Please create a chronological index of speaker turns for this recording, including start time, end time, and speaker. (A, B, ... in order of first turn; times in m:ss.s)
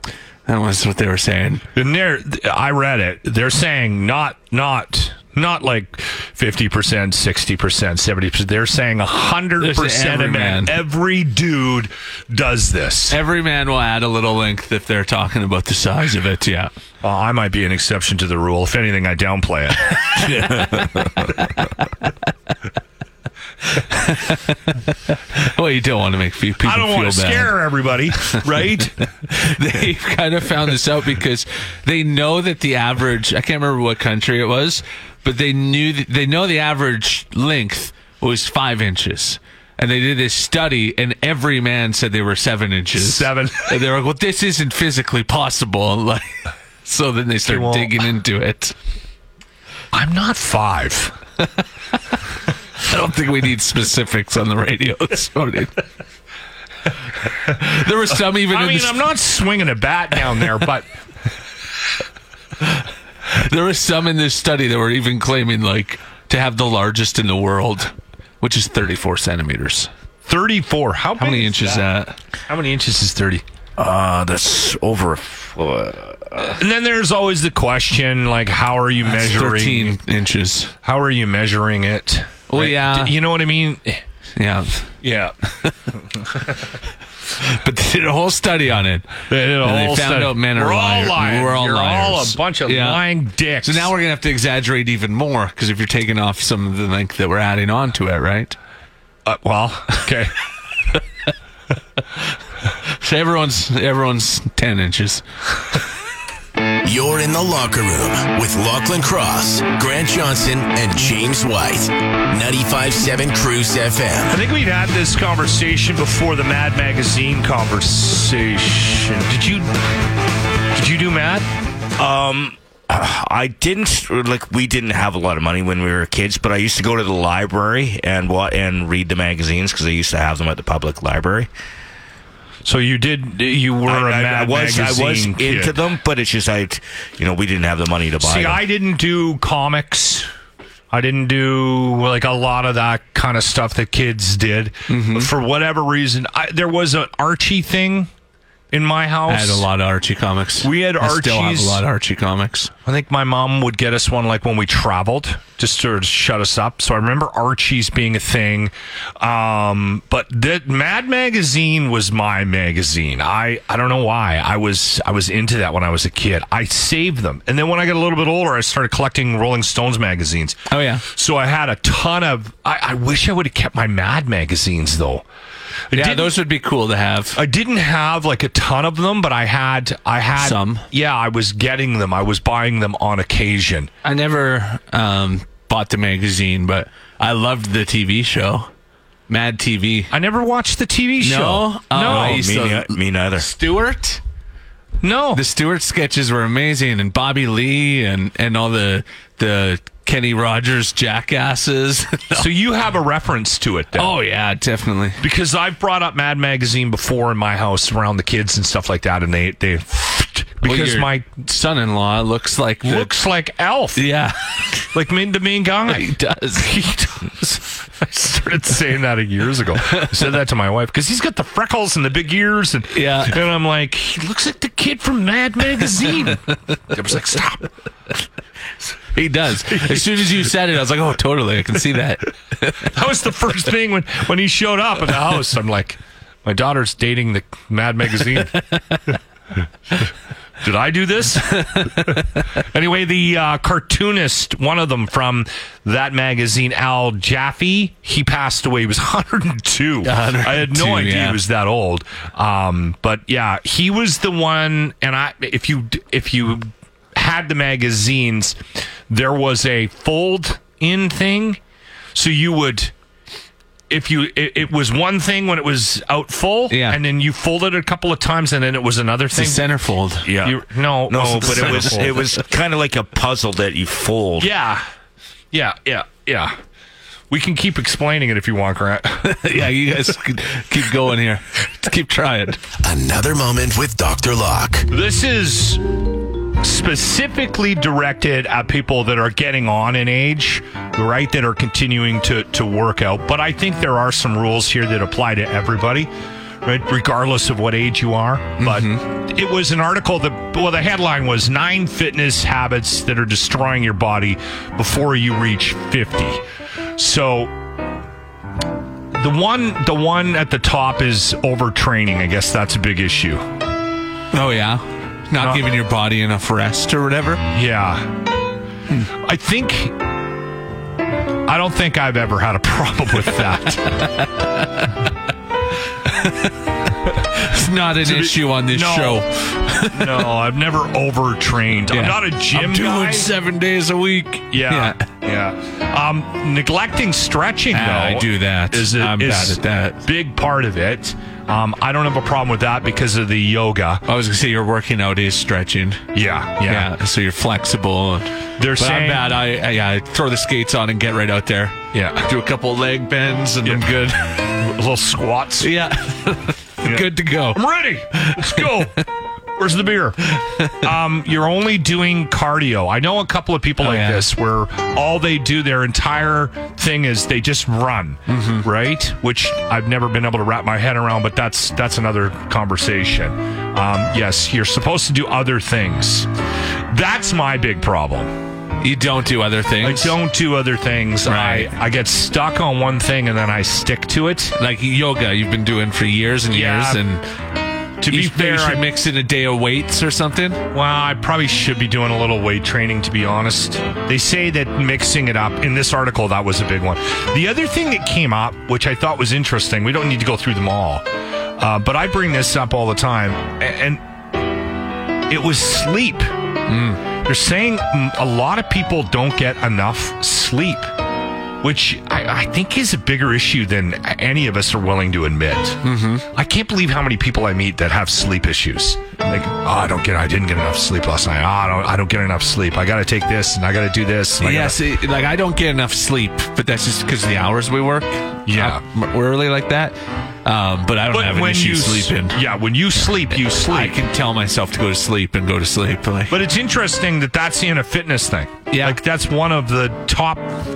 0:00.4-0:01.6 A
0:01.7-0:13.2 B
0:09.6-0:10.8 A
0:13.1-0:16.7 A
0:17.0-0:20.5 B
0:20.2-0:21.3 C
0:21.3-0:22.1 A
0:23.6-0:27.5 A
0:26.6-0:29.0 B
0:29.2-0:48.7 A
0:43.0-0:43.7 B
0:47.5-0:48.0 B
0:49.9-0:51.1 B
0:52.8-0:55.8 A
0:57.4-0:59.0 A
0:58.5-1:00.9 B
1:02.6-1:09.9 A
1:10.2-1:11.8 B
1:11.2-1:12.1 A
1:12.5-1:13.4 B
1:13.8-1:16.6 C
1:16.6-1:20.0 B
1:19.1-1:20.7 A
1:20.8-1:24.0 B
1:22.5-1:23.1 A
1:24.4-1:24.9 A
1:25.0-1:25.3 B
1:25.9-1:26.3 B
1:27.4-1:33.0 A
1:29.3-1:33.9 B
1:33.6-1:38.6 A
1:39.2-1:40.3 B
1:42.8-1:45.2 A
1:46.8-1:54.4 D
1:54.3-1:59.7 B
2:00.7-2:01.4 B
2:02.0-2:11.5 C
2:12.6-2:15.7 B
2:13.9-2:18.6 C
2:18.2-2:20.3 B
2:20.9-2:28.1 B
2:24.9-2:25.3 A
2:28.7-2:29.6 B
2:29.3-2:32.7 A
2:30.6-2:31.8 B
2:32.8-2:55.2 B
2:50.7-2:51.0 A
2:55.9-2:56.3 B
2:55.9-2:57.4 A
2:57.4-3:03.9 B
3:00.4-3:00.8 A
3:04.0-3:08.7 A
3:09.3-3:10.1 A
3:10.1-3:12.4 B
3:11.2-3:14.2 A
3:12.0-3:13.5 C
3:15.0-3:15.4 B
3:15.3-3:22.5 A
3:22.3-3:24.1 B
3:23.9-3:25.2 A
3:25.2-3:31.3 B
3:30.6-3:33.1 A
3:32.8-3:34.0 B
3:34.0-3:34.8 A
3:34.9-3:47.6 B
3:35.9-3:36.7 A
3:42.9-3:43.3 A
3:49.1-3:52.9 A
3:49.7-3:50.2 B
3:52.9-3:58.5 B
3:58.6-3:59.0 A
4:00.6-4:18.6 B
4:01.6-4:02.4 A
4:10.0-4:11.4 A
4:19.1-4:21.6 B
4:22.1-4:22.9 B
4:23.9-4:29.7 B
4:26.7-4:27.0 A
4:29.3-4:30.3 A
4:30.2-4:34.5 C
4:30.4-4:32.2 B
4:31.6-4:32.1 A
4:34.4-4:34.8 B
4:35.5-4:36.5 B
4:37.3-4:39.3 B
4:39.2-4:42.6 A
4:42.8-4:44.9 D
4:44.9-4:45.8 B
4:46.6-4:56.1 B
4:56.6-5:06.4 B
4:58.6-4:59.0 A
5:07.0-5:07.5 B
5:09.1-5:13.4 B
5:14.3-5:17.4 A
5:15.4-5:15.6 B
5:17.5-5:18.1 B
5:19.2-5:19.9 B
5:21.4-5:23.9 B
5:23.8-5:24.9 A
5:26.0-5:30.3 A
5:28.0-5:29.2 B
5:29.8-5:33.3 B
5:31.9-5:35.0 A
5:34.5-5:44.0 B
5:37.7-5:40.0 A
5:44.0-5:46.0 A
5:46.1-5:46.9 B
5:46.6-5:54.2 A
5:48.6-5:49.4 B
5:51.9-5:52.3 B
5:53.6-5:55.7 B
5:55.6-5:57.6 A
5:56.8-5:59.0 B
5:58.1-5:58.8 A
5:59.6-6:16.3 B
6:03.8-6:04.3 A
6:08.3-6:08.7 A
6:16.9-6:18.3 B
6:18.8-6:20.2 A
6:19.8-6:24.6 B
6:21.2-6:21.7 A
6:24.6-6:27.2 A
6:26.5-6:27.0 B
6:28.0-6:28.8 B
6:28.0-6:30.6 A
6:30.7-6:41.0 B
6:41.6-6:44.0 B
6:45.3-6:46.3 B
6:46.7-6:47.0 A
6:47.2-6:50.9 B
6:51.6-6:55.8 B
6:55.8-6:56.2 A
6:56.3-7:04.8 B
7:04.4-7:12.4 A
7:08.5-7:08.8 B
7:11.1-7:14.0 B
7:13.5-7:16.4 A
7:16.3-7:20.4 B
7:18.7-7:19.0 A